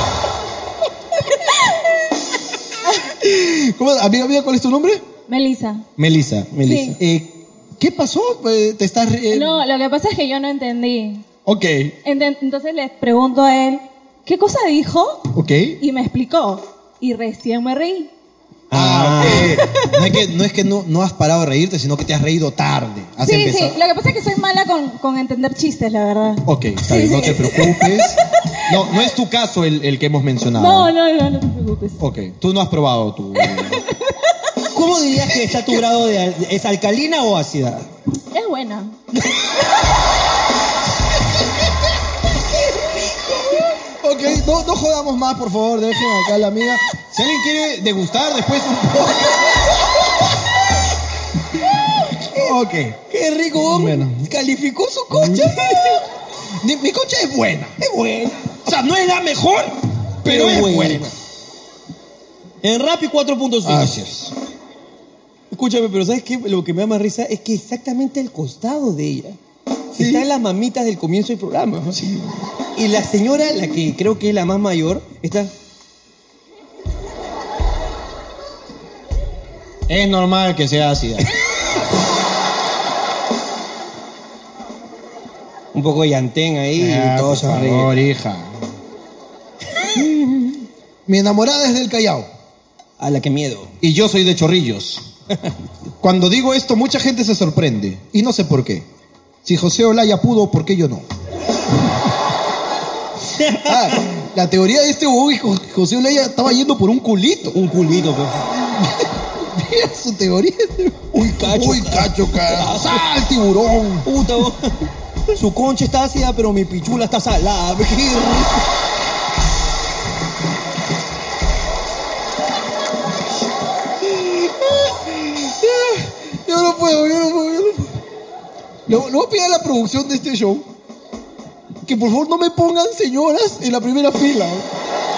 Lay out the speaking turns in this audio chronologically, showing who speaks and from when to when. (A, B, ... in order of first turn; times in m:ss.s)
0:03.1-0:05.0 A
0:05.3-0:05.8 B
0:06.0-0:09.6 A
0:06.5-0:07.0 C
0:06.7-0:07.0 B
0:09.4-0:11.2 B
0:11.5-0:12.0 A
0:12.0-0:15.2 B
0:15.3-0:15.8 A
0:15.8-0:18.1 B
0:18.7-0:19.6 C
0:18.7-0:23.8 A
0:23.2-0:27.9 B
0:26.4-0:30.9 A
0:30.6-0:32.0 B
0:32.0-0:33.8 A
0:34.7-0:37.9 C
0:35.5-0:35.8 A
0:38.3-0:38.9 B
0:44.0-0:49.8 A
0:52.3-0:53.0 A
0:53.1-0:56.0 C
0:53.6-0:54.3 A
0:55.1-0:56.0 A
0:56.6-0:57.8 A
0:57.8-0:58.5 C
0:58.6-1:01.1 A
1:00.2-1:01.1 C
1:02.6-1:04.0 C
1:03.6-1:04.3 A
1:05.5-1:09.4 C
1:10.0-1:12.0 C
1:10.0-1:10.2 A
1:12.0-1:12.2 A
1:12.8-1:15.5 C
1:19.9-1:21.3 A
1:25.7-1:27.9 C
1:26.8-1:28.5 A
1:29.9-1:32.3 A
1:33.0-1:33.7 C
1:33.8-1:35.0 A
1:36.0-1:38.9 A
1:39.4-1:41.0 A
1:43.3-1:44.0 C
1:43.6-1:47.6 A
1:47.5-1:48.4 C
1:48.6-1:54.1 A
1:51.1-1:53.0 C
1:54.0-1:54.7 C
1:55.3-1:58.6 C
2:04.0-2:08.0 A
2:08.9-2:10.6 A
2:11.8-2:14.7 A